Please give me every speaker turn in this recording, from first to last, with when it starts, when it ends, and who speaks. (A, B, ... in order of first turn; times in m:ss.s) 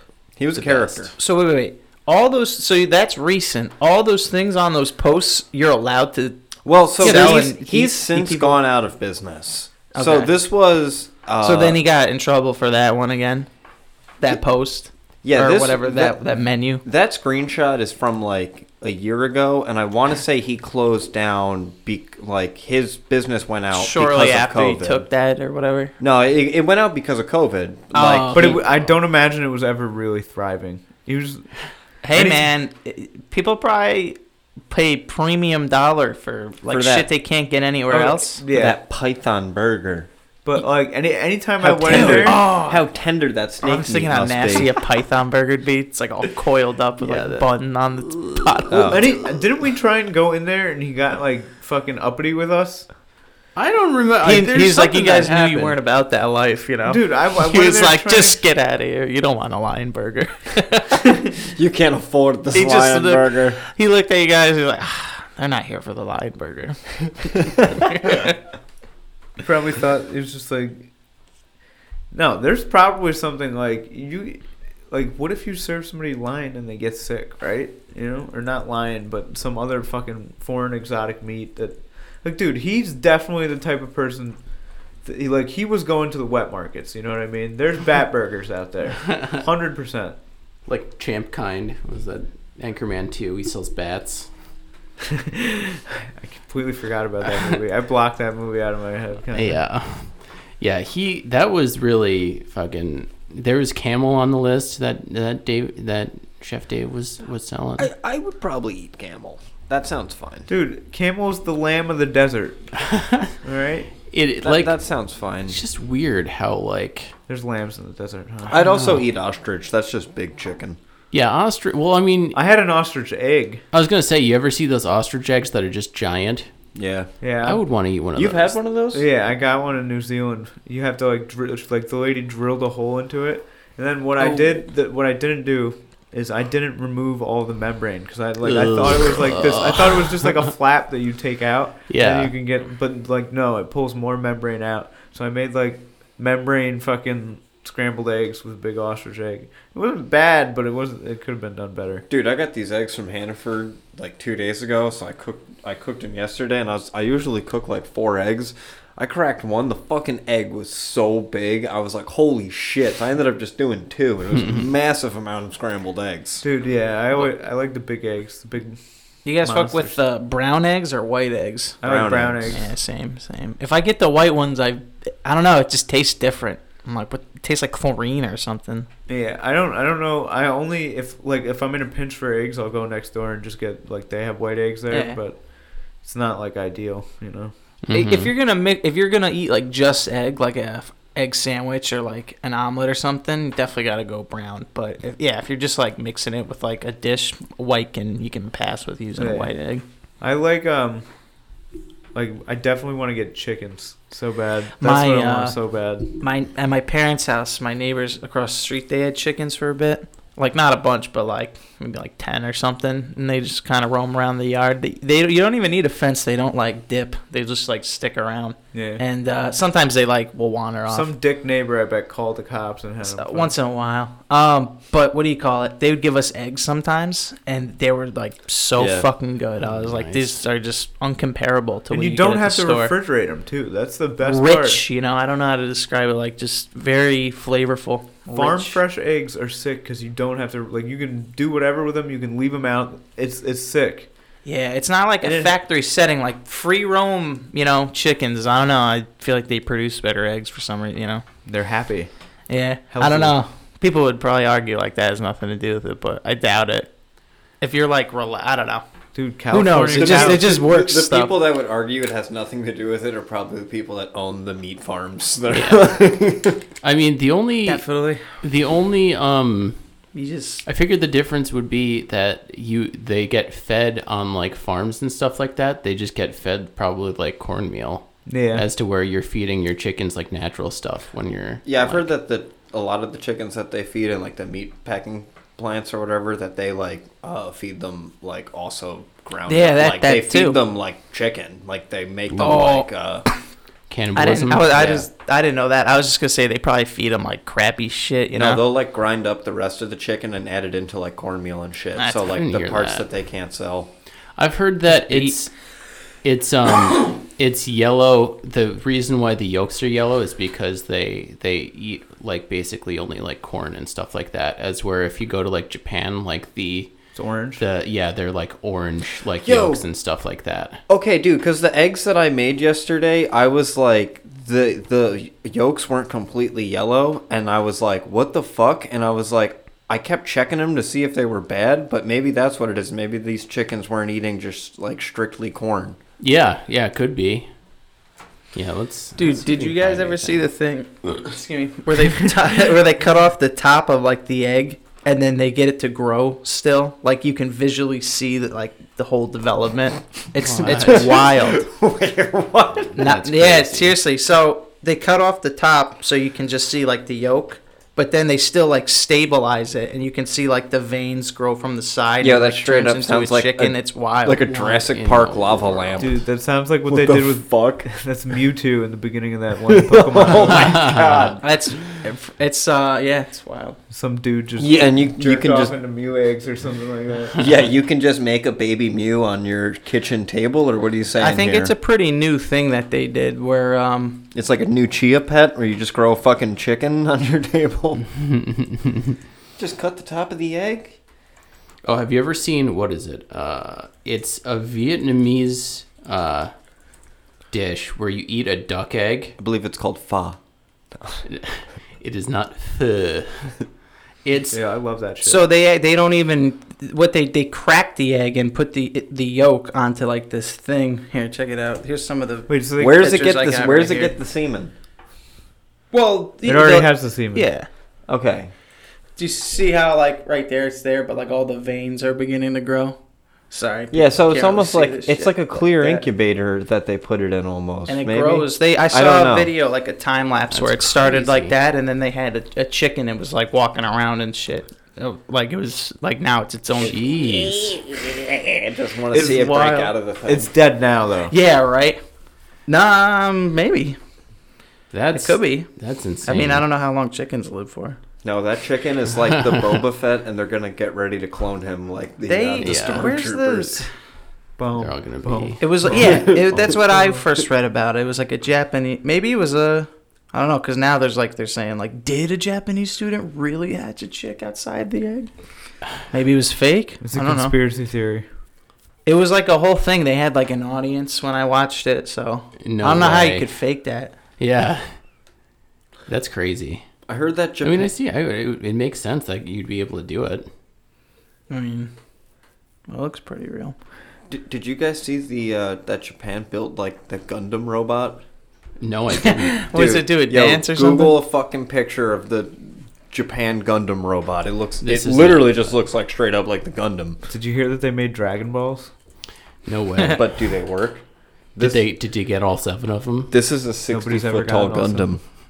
0:00.4-0:01.1 A
0:00.5-0:01.1 B
0:01.2-0:06.4 C
0:06.6-0:11.8 A
0:07.0-0:08.6 C
0:09.9-0:10.3 C
0:11.4-0:13.5 C
0:14.2-0:16.8 C
0:15.2-0:16.2 A
0:16.8-0:25.1 A
0:23.7-0:26.0 C
0:26.0-0:28.8 A
0:27.9-0:28.6 C
0:28.3-0:31.5 D
0:32.0-0:34.2 C
0:32.1-0:32.5 D
0:34.7-0:38.4 C
0:36.7-0:37.1 A
0:37.9-0:38.8 D
0:38.5-0:40.1 A
0:40.4-0:42.4 D
0:41.6-0:42.9 C
0:41.8-0:44.7 A
0:43.6-0:49.0 C
0:47.0-0:47.5 B
0:48.1-0:48.8 B
0:48.7-0:49.1 A
0:48.9-0:52.9 D
0:53.6-0:55.8 B
0:54.2-1:01.0 C
0:56.9-0:58.4 D
1:01.5-1:03.6 A
1:02.5-1:06.8 C
1:07.8-1:08.4 C
1:09.4-1:10.9 D
1:12.1-1:24.4 D
1:25.0-1:30.2 D
1:30.7-1:34.3 B
1:35.1-1:39.6 D
1:39.3-1:47.9 B
1:47.8-1:50.5 A
1:50.5-1:52.7 D
1:52.9-1:53.3 B
1:53.4-1:54.0 D
1:54.1-1:54.8 B
1:54.4-1:55.6 A
1:55.5-1:57.1 B
1:57.3-1:58.6 D
1:58.5-2:00.8 A
1:58.6-1:59.0 B
2:01.1-2:02.4 B
2:02.3-2:03.6 D
2:03.7-2:06.5 B
2:06.8-2:07.1 A
2:07.2-2:07.6 D
2:07.4-2:08.6 B
2:08.2-2:09.1 A
2:08.9-2:32.1 D
2:14.2-2:14.6 C
2:18.4-2:20.3 B
2:21.9-2:22.3 B
2:32.1-2:46.4 A
2:46.4-2:48.8 D
2:49.2-2:51.8 C
2:49.4-2:50.0 D
2:51.8-2:52.6 D
2:51.8-2:52.6 A
2:52.5-2:58.9 C
2:59.1-3:05.4 D
3:04.9-3:05.2 C
3:06.0-3:07.5 D
3:07.9-3:08.3 B
3:07.9-3:19.8 C
3:19.2-3:19.5 D
3:20.2-3:21.1 D
3:22.1-3:26.1 D
3:24.8-3:25.6 C
3:26.2-3:41.1 C
3:38.7-3:39.0 D
3:40.9-3:43.6 D
3:43.0-3:52.9 C
3:48.8-3:49.1 A
3:49.6-3:50.4 B
3:51.9-3:54.8 D
3:54.2-3:58.8 C
3:58.3-4:04.1 D
4:04.4-4:11.2 C
4:05.2-4:05.6 D
4:11.5-4:12.1 D
4:12.5-4:16.9 C
4:12.9-4:13.4 D
4:17.6-4:18.8 C
4:19.1-4:20.6 D
4:19.5-4:21.4 C
4:20.0-4:26.6 A
4:25.5-4:26.0 B
4:26.8-4:27.9 B
4:27.7-4:28.4 C
4:28.4-4:29.8 B
4:30.1-4:30.6 C
4:30.6-4:42.1 B
4:38.3-4:38.7 D
4:41.6-4:53.3 A
4:49.5-4:50.6 C
4:52.4-4:52.9 C
4:53.9-4:55.1 B
4:54.2-4:58.6 C
4:58.4-5:03.9 A
5:02.0-5:02.2 C
5:02.3-5:03.1 B
5:04.4-5:05.5 B
5:04.9-5:05.4 C
5:06.2-5:16.9 B
5:17.1-5:17.6 D
5:17.6-5:20.8 B
5:19.4-5:19.8 A
5:20.9-5:36.0 A
5:36.2-5:37.5 B
5:38.5-5:40.5 B
5:39.2-5:51.7 C
5:50.4-5:51.1 B
5:50.6-5:53.0 A
5:53.0-5:54.0 B
5:53.0-6:04.4 C
6:02.2-6:06.2 A
6:04.4-6:06.1 B
6:06.0-6:10.9 D
6:06.9-6:07.9 A
6:09.7-6:11.4 A
6:10.5-6:11.3 B
6:11.4-6:13.8 C
6:13.9-6:17.5 D
6:14.6-6:15.8 A
6:17.4-6:21.7 A
6:21.2-6:24.3 C
6:24.3-6:28.0 A
6:28.2-6:29.2 B
6:29.6-6:31.0 A
6:31.8-6:36.5 B
6:37.5-6:39.4 B
6:39.4-6:40.4 A
6:41.2-6:43.6 B
6:44.2-6:44.6 B
6:44.5-6:45.4 D
6:45.2-6:54.2 C
6:52.5-6:53.1 D
6:52.8-6:54.7 A
6:55.9-6:57.7 C
6:56.4-6:57.5 D
6:58.1-6:58.5 A
6:59.2-7:03.0 C
7:03.5-7:06.1 C
7:03.9-7:09.5 A
7:07.9-7:17.8 C
7:10.5-7:11.5 B
7:16.8-7:17.8 B
7:18.3-7:20.6 A
7:19.1-7:19.9 C
7:19.1-7:19.5 D
7:20.2-7:21.3 D
7:21.3-7:22.0 C
7:22.7-7:24.0 C
7:24.9-7:26.6 B
7:25.1-7:25.7 C
7:26.2-7:28.0 C
7:28.2-7:33.8 A
7:32.3-7:33.9 C
7:32.6-7:33.1 B
7:34.6-7:37.2 D
7:34.8-7:35.6 B
7:35.6-7:45.3 C
7:36.0-7:36.5 A
7:46.1-7:47.6 C
7:47.0-7:48.3 D
7:49.0-7:54.2 C
7:52.6-7:53.5 B
7:54.4-7:55.0 B
7:56.1-7:56.8 B
7:57.1-7:57.9 A
7:57.6-8:00.5 B
8:01.5-8:01.9 C
8:02.9-8:03.8 C
8:04.3-8:08.2 A
8:08.8-8:09.6 B
8:09.2-8:11.2 C
8:09.7-8:17.2 A
8:14.8-8:15.8 B
8:17.3-8:18.9 D
8:19.6-8:20.3 B
8:20.1-8:21.0 A
8:21.6-8:21.8 A
8:21.6-8:23.3 B
8:23.3-8:25.2 A
8:23.9-8:25.2 D